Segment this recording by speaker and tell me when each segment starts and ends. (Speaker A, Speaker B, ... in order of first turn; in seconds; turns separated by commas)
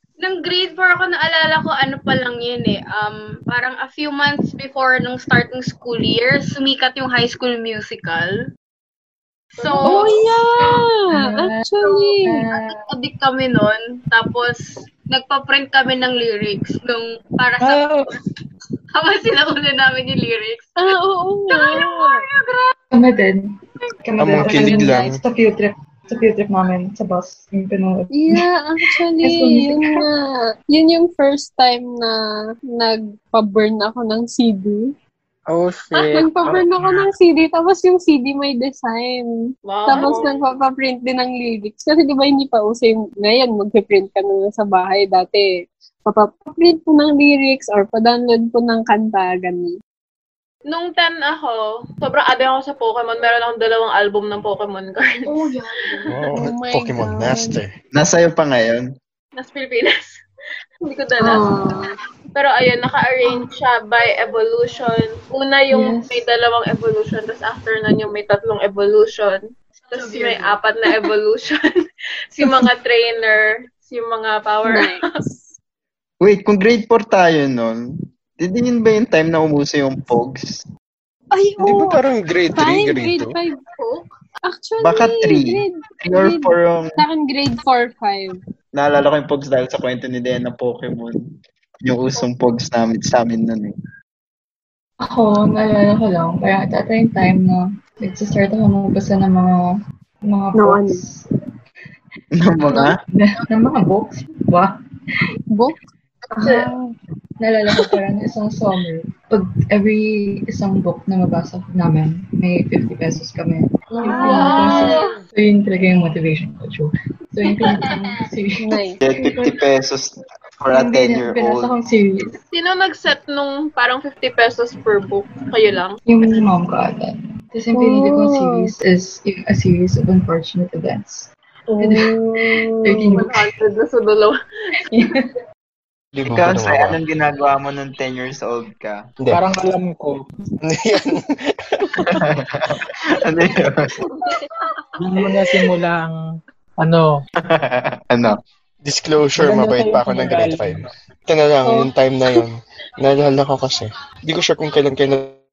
Speaker A: 0.2-8.4, Speaker B: 9.6-10.3, Speaker A: 9.6-9.9, Speaker C: 9.8-12.5, Speaker D: 10.6-11.7, Speaker A: 11.8-18.2, Speaker D: 12.2-13.0, Speaker E: 17.6-18.1, Speaker A: 18.9-20.7, Speaker C: 20.8-22.3, Speaker A: 21.5-22.6, Speaker D: 22.9-23.5, Speaker D: 24.0-28.4, Speaker F: 24.2-25.2, Speaker A: 24.5-25.0, Speaker A: 26.1-26.4, Speaker C: 28.1-32.2, Speaker D: 29.2-30.0, Speaker C: 32.7-34.9, Speaker E: 35.5-37.1, Speaker C: 35.9-39.3, Speaker B: 39.6-40.4, Speaker C: 39.8-45.5, Speaker C: 46.0-49.8, Speaker B: 50.7-56.2, Speaker A: 55.3-56.0, Speaker F: 56.0-57.7, Speaker C: 56.3-57.6, Speaker G: 57.9-58.9, Speaker B: 59.4-60.2, Speaker B: 60.8-61.7, Speaker C: 61.2-61.9, Speaker B: 62.3-71.6, Speaker C: 65.7-66.2, Speaker A: 70.0-70.5, Speaker B: 72.3-75.0, Speaker C: 74.7-75.4, Speaker G: 76.2-77.8, Speaker G: 78.4-80.6, Speaker C: 81.3-83.6, Speaker F: 81.6-83.4, Speaker C: 84.4-88.4, Speaker G: 84.8-86.9, Speaker G: 88.7-91.2, Speaker G: 91.8-93.7, Speaker D: 95.0-99.6, Speaker D: 100.2-101.2, Speaker C: 100.5-101.0, Speaker G: 102.4-103.0, Speaker D: 103.1-104.7, Speaker C: 105.5-105.8, Speaker D: 106.4-106.7, Speaker C: 106.6-106.9, Speaker D: 107.4-119.5, Speaker C: 114.0-114.4, Speaker B: 114.2-115.1, Speaker C: 118.6-119.0, Speaker G: 119.0-121.7, Speaker D: 120.7-122.3, Speaker B: 122.5-126.0, Speaker D: 126.0-133.4, Speaker C: 127.7-128.7, Speaker C: 131.7-133.2, Speaker B: 133.2-134.4, Speaker F: 136.1-137.0, Speaker G: 136.2-139.0, Speaker F: 139.2-139.4, Speaker E: 139.3-140.2, Speaker F: 140.6-141.9, Speaker G: 142.0-143.8, Speaker E: 145.0-146.1, Speaker E: 146.8-147.2, Speaker G: 147.5-148.3, Speaker F: 148.8-155.3, Speaker E: 149.4-150.8, Speaker C: 151.7-151.9